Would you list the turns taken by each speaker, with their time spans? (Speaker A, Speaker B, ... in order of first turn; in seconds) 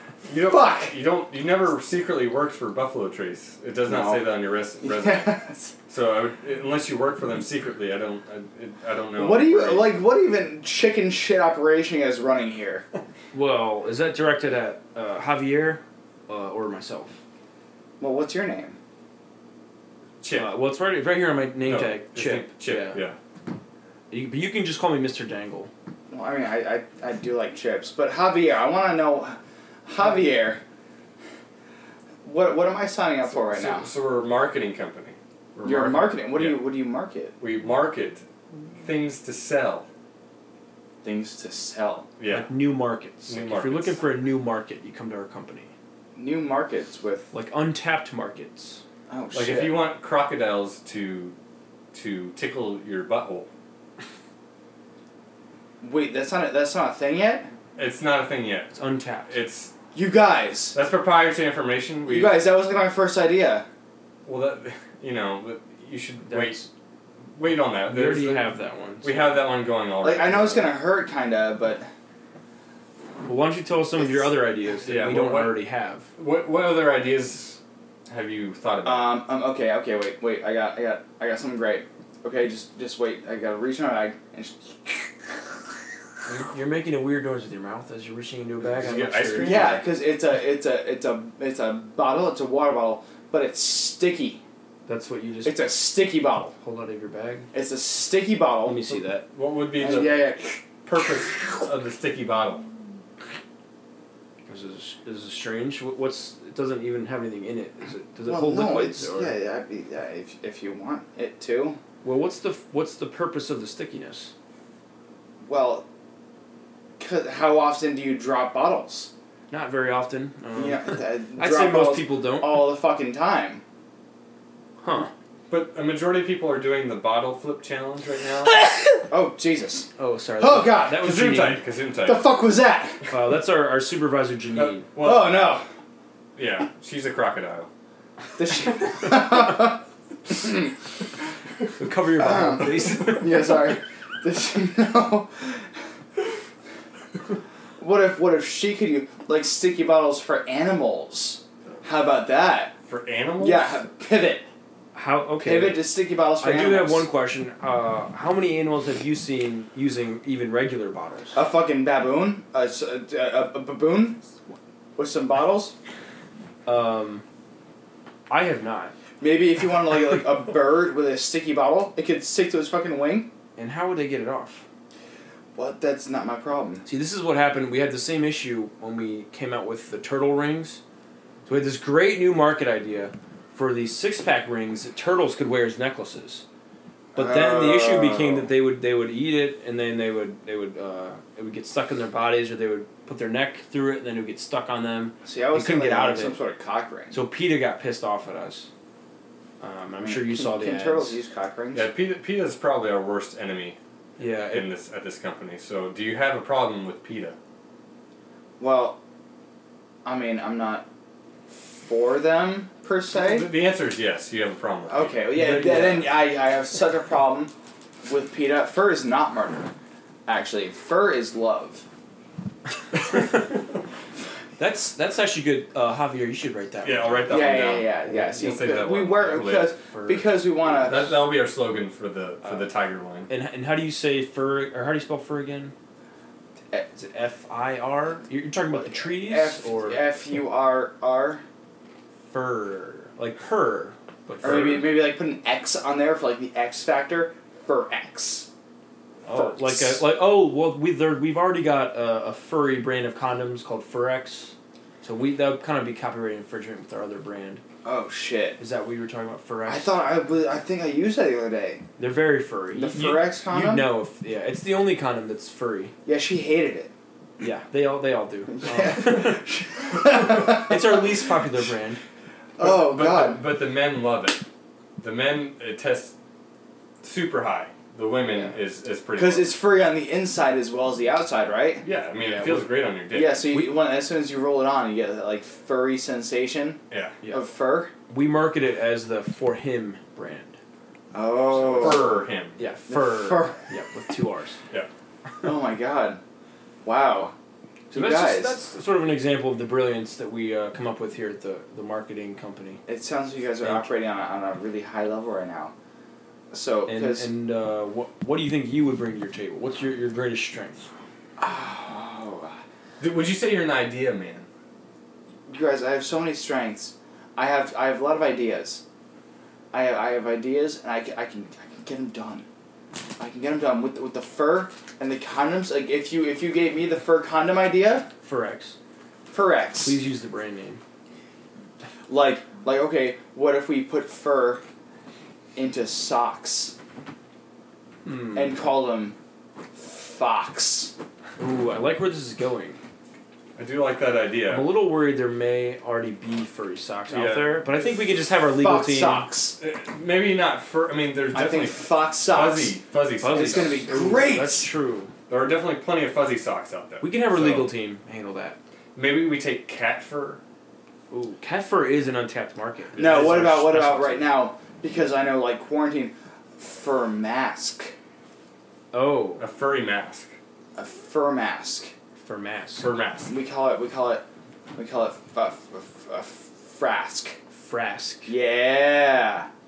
Speaker A: 0.3-5.3, 5.9-9.9, 20.2-20.5, 21.6-23.1, 33.4-36.6, 37.4-38.2, 38.8-39.9, 42.2-42.5, 43.3-44.0, 49.3-51.4, 51.9-53.5, 57.8-58.7, 59.3-59.7, 60.7-62.4, 64.2-66.6, 67.3-68.5, 69.0-70.7, 74.8-75.6, 76.2-79.2, 88.6-89.9, 99.3-102.7, 125.5-128.6, 130.9-132.3, 134.6-135.5, 136.3-137.7, 152.9-153.8, 201.7-203.8, 204.4-207.3, 213.1-215.3, 226.8-229.7, 230.6-233.3, 272.6-274.4, 275.0-276.1, 277.0-279.5, 281.8-283.4, 286.9-287.2, 291.6-292.6, 313.0-314.5, 343.6-344.7, 347.1-347.7, 349.6-353.9, 355.3-357.7, 358.9-360.4, 369.4-370.3, 372.8-373.3
Speaker B: 0.5-0.9, 3.9-4.2, 4.8-5.7, 9.2-12.8, 18.0-18.8, 26.1-30.6, 32.2-33.9, 35.6-37.3, 41.0-42.1, 46.1-47.3, 49.1-49.9, 55.8-57.5, 59.9-60.8, 62.0-63.6, 70.0-71.9, 78.8-85.3, 89.4-94.4, 95.4-96.5, 97.5-98.8, 99.8-100.6, 108.2-111.8, 115.4-115.8, 117.0-119.1, 120.5-123.6, 129.1-131.1, 132.0-133.0, 135.0-135.7, 138.4-140.7, 142.2-145.7, 147.8-152.7, 153.4-154.4, 155.4-157.1, 161.3-164.2, 164.9-165.7, 169.2-173.3, 175.5-176.8, 187.1-188.5, 195.2-197.2, 200.0-201.9, 208.6-209.0, 210.0-210.8, 211.5-213.5, 214.9-217.5, 218.1-219.7, 220.2-221.8, 227.3-231.2, 238.8-241.4, 244.4-248.5, 249.3-250.0, 257.8-258.6, 259.7-261.9, 262.7-263.9, 266.1-266.9, 268.5-271.1, 272.6-273.4, 279.1-281.8, 283.1-287.9, 291.1-292.1, 292.9-293.6, 295.4-296.2, 296.8-297.3, 297.9-298.6, 302.9-305.7, 306.5-307.3, 311.4-312.6, 315.5-318.8, 319.7-322.4, 323.2-328.1, 329.3-330.0, 332.1-334.6, 335.6-336.8, 338.3-339.1, 339.7-340.9, 348.5-349.6, 351.3-352.8, 353.3-354.7, 362.9-367.9, 370.8-371.9, 373.3-374.2, 374.7-377.4, 378.2-379.5
Speaker C: 13.3-17.1, 20.3-23.0, 24.1-25.7, 42.3-45.7, 47.3-48.8, 58.7-59.3, 66.3-66.7, 67.9-69.3, 73.2-76.1, 86.3-89.8, 94.8-95.6, 96.6-97.5, 98.6-99.2, 104.5-109.3, 112.0-114.3, 119.5-122.7, 124.8-125.1, 130.0-131.6, 133.1-134.8, 141.8-143.5, 154.9-161.4, 166.7-167.2, 168.3-168.9, 173.6-174.6, 176.8-180.8, 181.4-186.4, 187.1-196.4, 197.1-198.7, 199.6-201.2, 204.2-204.7, 215.3-216.1, 224.6-227.5, 228.1-228.5, 229.9-230.3, 233.3-235.7, 236.9-240.0, 242.3-244.9, 249.2-257.6, 258.6-259.9, 262.0-265.9, 267.4-269.4, 270.3-272.0, 288.1-290.6, 291.8-294.6, 297.9-302.8, 303.6-303.9, 306.9-310.9, 328.2-328.8, 329.8-330.8, 338.0-338.6, 341.4-342.8, 344.5-349.3, 353.2-355.1, 357.0-358.6, 361.1-364.3, 368.9-369.4, 372.2-372.9, 377.5-378.3